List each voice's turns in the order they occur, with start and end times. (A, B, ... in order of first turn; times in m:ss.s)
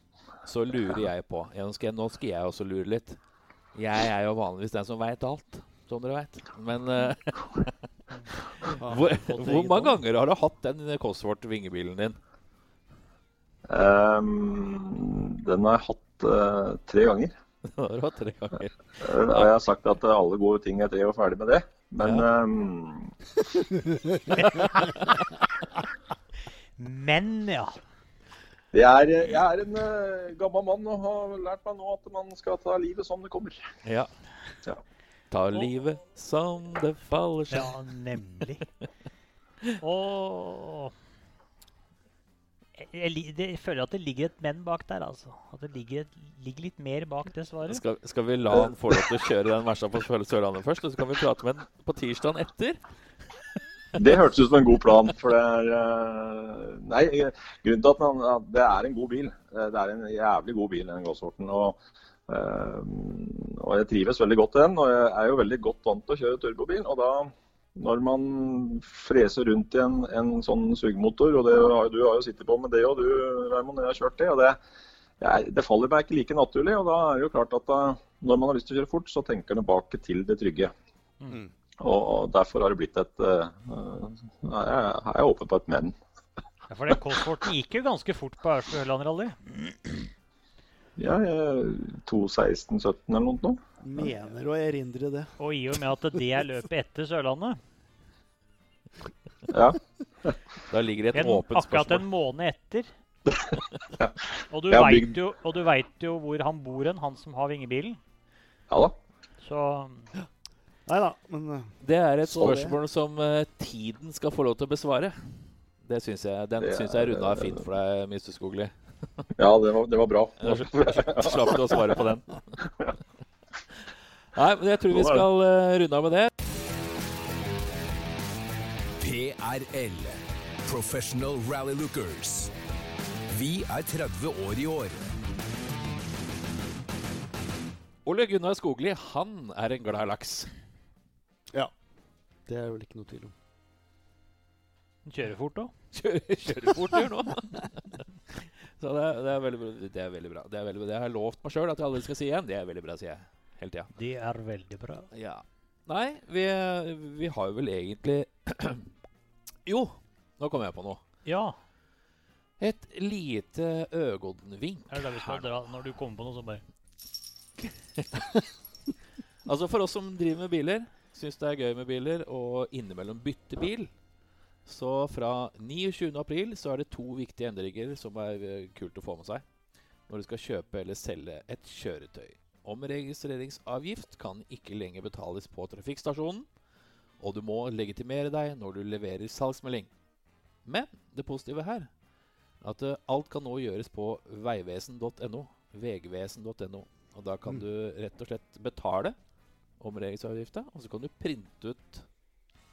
0:00.4-0:03.2 A
0:03.7-0:07.7 A
0:08.3-0:12.2 A
0:08.8-0:10.0 B
0:13.7-0:17.3 C
0:17.7-0:18.8 A
0:19.0-0:23.1 C
0:26.8-0:27.8 D
0:28.7-0:33.6 C
0:33.8-0:34.1 A
0:35.3-0:37.8 A
0:37.5-0:38.7 D
0:39.8-0:40.9 D
0:42.8-0:47.8 D
0:47.7-0:52.8 A
0:48.5-0:49.0 C
0:54.0-1:14.6 C
1:15.2-1:20.7 C
1:21.8-1:25.9 C
1:26.7-1:30.0 D
1:31.0-1:33.6 C
1:33.8-1:35.4 B
1:35.4-1:37.6 D
1:39.5-1:40.4 C
1:40.7-1:42.0 A
1:41.1-1:42.9 D
1:43.4-1:45.1 C
1:44.5-1:48.0 D
1:49.4-1:50.1 D
1:50.9-1:52.8 B
1:51.8-1:59.3 A
1:56.6-1:57.6 C
1:59.4-2:01.9 C
2:00.4-2:02.4 A
2:04.3-2:06.3 A
2:04.9-2:05.2 C
2:09.0-2:12.5 E
2:13.3-2:15.1 E
2:18.0-2:20.5 A
2:22.4-2:23.3 B
2:25.0-2:25.7 D
2:25.9-2:33.9 A
2:33.9-2:35.1 D
2:35.1-2:38.9 A
2:39.6-2:41.0 A
2:41.2-2:41.6 D
2:42.6-2:45.5 A
2:44.9-2:46.6 D
2:48.0-2:48.4 A
2:49.4-2:53.9 A
2:54.6-2:59.4 A
3:00.1-3:06.5 A
3:07.2-3:09.9 A
3:10.6-3:11.9 A
3:12.6-3:19.2 A
3:19.8-3:22.0 A